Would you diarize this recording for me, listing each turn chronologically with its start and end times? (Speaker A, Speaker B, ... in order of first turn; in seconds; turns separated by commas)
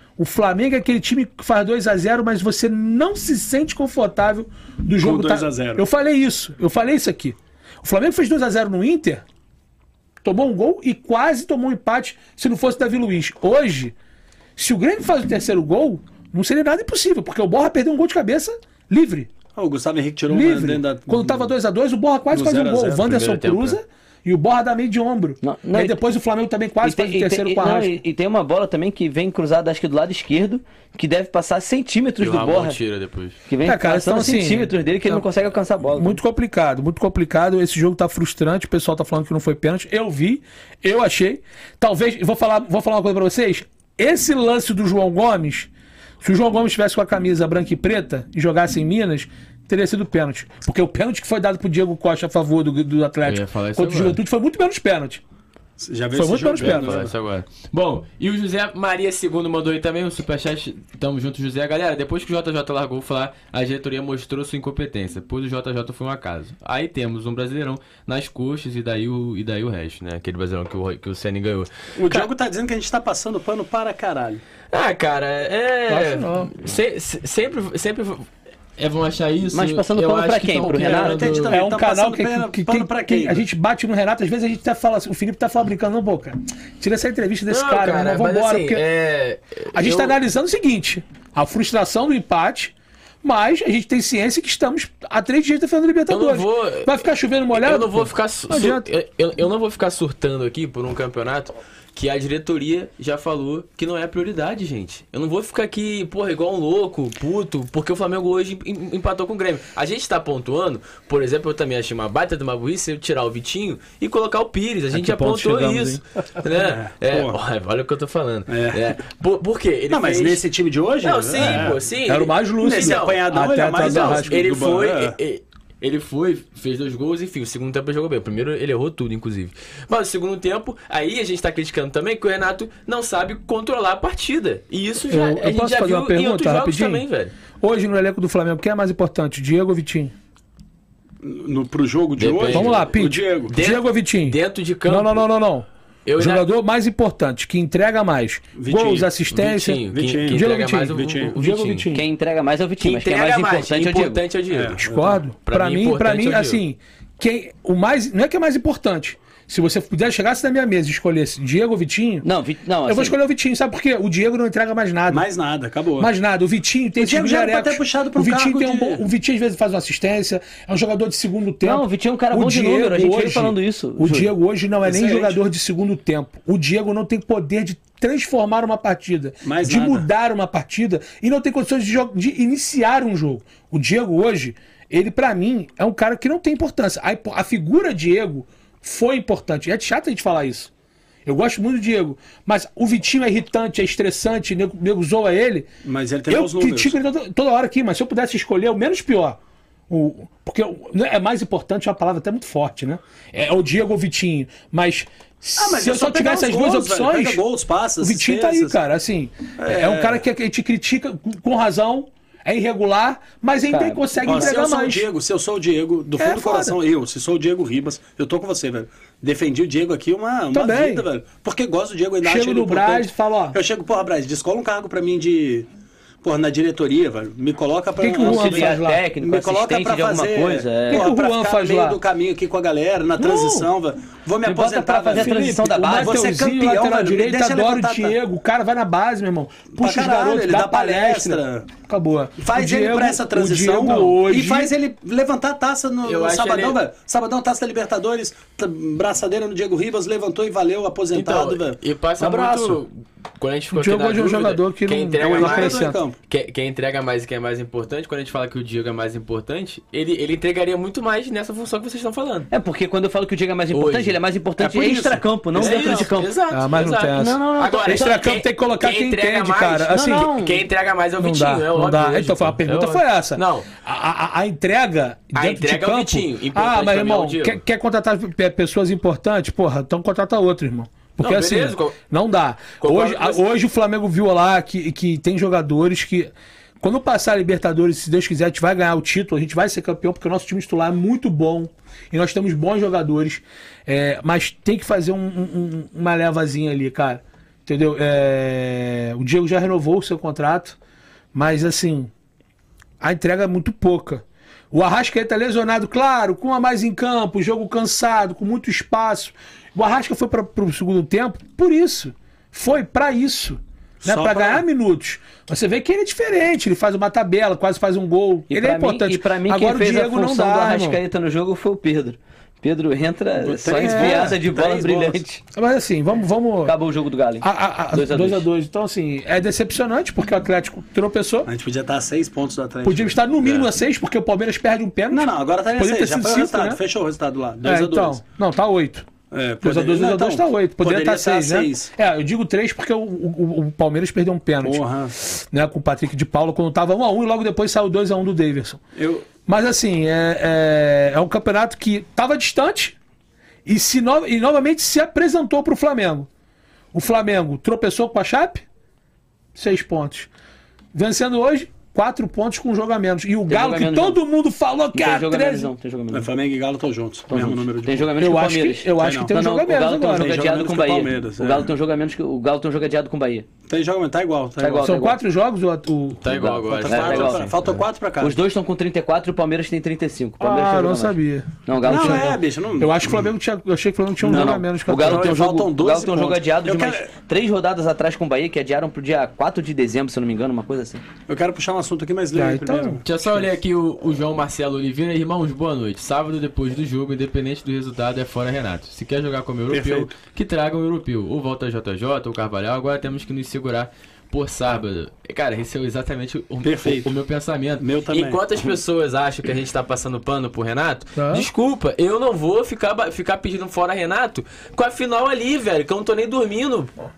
Speaker A: 0.2-9.2, Speaker B: 5.0-5.8, Speaker A: 10.2-13.9, Speaker A: 14.6-19.3, Speaker B: 19.6-21.5, Speaker A: 20.3-28.0, Speaker B: 22.3-23.1, Speaker C: 23.0-23.8, Speaker D: 25.4-26.0, Speaker D: 26.8-32.8, Speaker C: 32.2-33.4, Speaker D: 33.5-36.2, Speaker A: 33.6-35.2, Speaker A: 35.9-45.7, Speaker A: 46.2-55.2, Speaker C: 53.2-54.2, Speaker B: 55.8-57.1, Speaker A: 56.1-57.0, Speaker C: 56.5-72.3, Speaker B: 72.0-74.4, Speaker C: 74.7-81.6, Speaker A: 75.9-76.5, Speaker D: 79.5-81.3, Speaker B: 80.7-83.4, Speaker A: 81.5-88.8, Speaker C: 87.5-90.1, Speaker A: 89.7-98.8, Speaker C: 96.1-97.0, Speaker C: 97.5-120.5, Speaker A: 114.9-116.0, Speaker B: 116.5-117.4, Speaker B: 118.5-118.8, Speaker B: 119.9-121.8, Speaker C: 121.0-137.3, Speaker A: 121.4-124.4, Speaker B: 122.6-125.1, Speaker A: 135.1-137.0, Speaker A: 137.6-140.1, Speaker B: 141.2-143.5, Speaker C: 142.2-142.9, Speaker A: 142.5-145.7, Speaker C: 143.5-145.2, Speaker C: 146.1-146.4, Speaker A: 146.2-152.0, Speaker B: 148.6-149.1, Speaker C: 149.3-151.9, Speaker B: 149.9-151.3, Speaker D: 151.9-154.2, Speaker C: 152.8-154.9, Speaker B: 154.5-155.2, Speaker A: 154.8-162.2, Speaker C: 155.4-156.6, Speaker D: 162.2-163.2, Speaker A: 162.9-165.2, Speaker B: 165.1-166.1, Speaker A: 166.0-190.7, Speaker B: 167.0-169.0, Speaker D: 171.6-174.3, Speaker B: 174.8-175.4, Speaker B: 179.4-180.0, Speaker A: 191.2-195.7, Speaker B: 195.8-197.0, Speaker A: 196.3-199.4, Speaker A: 199.9-207.4, Speaker B: 205.6-208.8, Speaker A: 208.0-215.1, Speaker B: 209.6-210.2, Speaker D: 213.7-214.3, Speaker B: 214.2-225.7, Speaker A: 216.2-216.8, Speaker A: 220.5-221.1, Speaker A: 222.2-223.6, Speaker B: 226.2-238.1, Speaker A: 228.0-229.0, Speaker D: 228.2-231.1, Speaker A: 230.9-232.0, Speaker A: 233.2-233.7, Speaker D: 234.4-236.2, Speaker A: 234.5-244.7, Speaker B: 239.7-241.7, Speaker B: 242.4-252.8, Speaker C: 246.0-246.8, Speaker C: 251.1-262.5, Speaker A: 253.7-256.0, Speaker B: 255.2-256.1, Speaker D: 262.5-266.3, Speaker C: 263.7-264.1, Speaker B: 264.6-266.1, Speaker C: 265.5-273.7, Speaker A: 266.5-270.3, Speaker D: 267.1-268.3, Speaker D: 269.9-270.6, Speaker A: 271.2-300.8, Speaker C: 275.3-277.6, Speaker C: 281.2-281.9, Speaker C: 282.8-283.4, Speaker A: 301.3-302.1, Speaker A: 303.0-321.0, Speaker B: 314.0-314.6, Speaker D: 318.5-325.4, Speaker B: 323.4-325.2, Speaker A: 323.8-324.4, Speaker A: 325.5-326.7, Speaker D: 326.6-328.4, Speaker A: 327.4-331.5, Speaker B: 331.4-333.2, Speaker A: 332.8-336.8, Speaker B: 335.1-338.2, Speaker A: 337.6-339.1, Speaker B: 339.3-341.9, Speaker A: 339.6-348.8, Speaker B: 344.6-345.2, Speaker B: 348.9-349.3, Speaker A: 349.4-352.9, Speaker A: 353.6-356.3, Speaker A: 356.9-358.6, Speaker A: 359.5-360.3, Speaker A: 360.9-365.7, Speaker D: 363.5-364.2, Speaker D: 364.9-366.3, Speaker B: 366.1-368.1, Speaker D: 367.3-373.5, Speaker A: 368.2-370.4, Speaker B: 368.9-369.3, Speaker B: 370.1-371.7, Speaker B: 373.7-374.9, Speaker D: 374.6-375.2, Speaker A: 374.8-376.2, Speaker C: 376.2-377.8, Speaker D: 376.3-377.5, Speaker B: 376.6-378.4, Speaker D: 378.2-382.4, Speaker A: 380.4-385.4, Speaker B: 381.8-383.3, Speaker B: 384.2-387.1, Speaker D: 384.2-391.0, Speaker B: 391.3-393.4, Speaker A: 392.3-393.0, Speaker C: 393.0-416.9, Speaker B: 399.7-400.1, Speaker B: 406.6-407.1, Speaker B: 407.8-408.4, Speaker A: 411.1-411.5